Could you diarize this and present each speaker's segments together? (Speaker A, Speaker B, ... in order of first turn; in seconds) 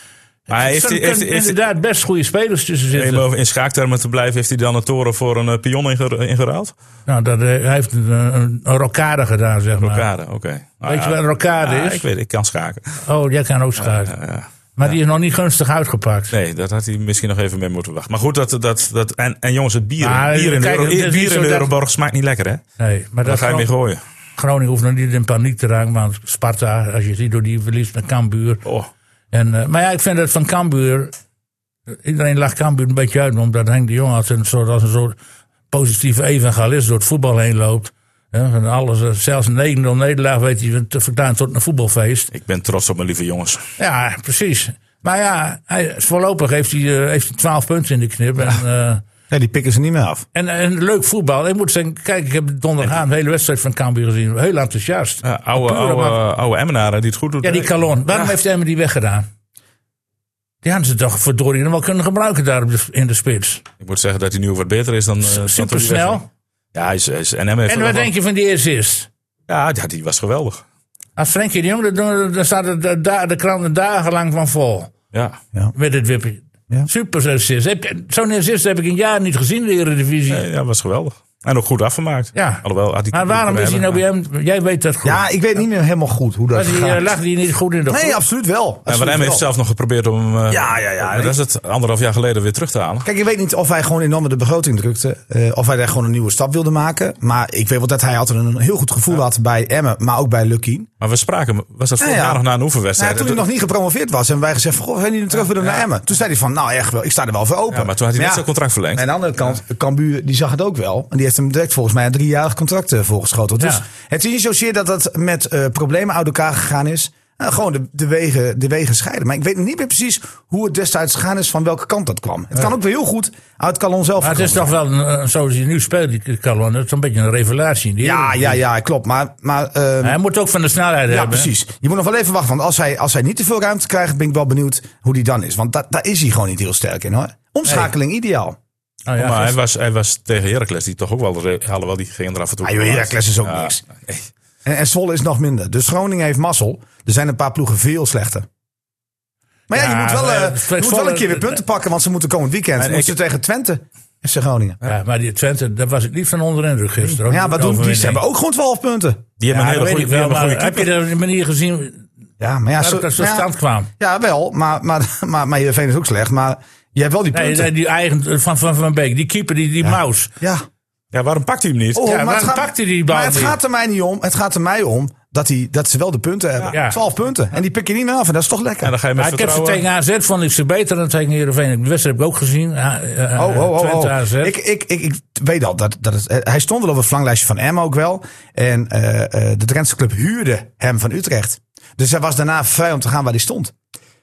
Speaker A: 0.5-1.6, 2.9-6.7, 9.8-13.0, 13.8-14.9, 16.3-22.6, 23.2-24.0, 42.3-43.6, 55.2-58.3, 63.8-66.2, 66.7-68.1, 69.5-70.6, 75.1-75.4, 80.3-84.0, 88.9-93.1, 101.0-103.4, 107.7-109.0, 139.2-144.3, 152.8-153.2, 159.4-160.9, 171.1-172.1, 178.8-179.8
Speaker B: 0.5-3.2, 7.1-10.1, 10.9-12.1, 13.1-14.2, 14.8-16.3, 20.0-21.7, 22.8-23.7, 24.4-28.6, 29.3-31.1, 31.9-35.2, 35.7-42.3, 43.8-49.0, 50.3-56.2, 57.4-59.3, 60.6-63.6, 65.2-66.3, 67.7-69.1, 71.2-74.9, 75.8-80.4, 82.3-85.2, 86.5-88.2, 113.6-113.8, 124.2-128.6, 130.0-131.5, 137.7-137.9, 139.1-139.6, 149.7-151.6, 154.8-158.2, 159.5-162.1, 162.8-163.9, 167.3-170.3, 172.0-173.6, 176.7-177.0, 179.2-184.5
Speaker C: 49.3-50.2, 85.0-87.0, 87.9-89.4, 90.5-91.4, 93.0-100.9, 102.0-102.4, 103.0-124.8, 128.0-130.2, 131.1-138.6, 142.6-143.8, 144.7-148.5, 149.7-154.8, 157.0-159.2, 162.4-163.5, 164.0-167.7, 169.8-170.7, 171.9-178.9, 183.4-193.7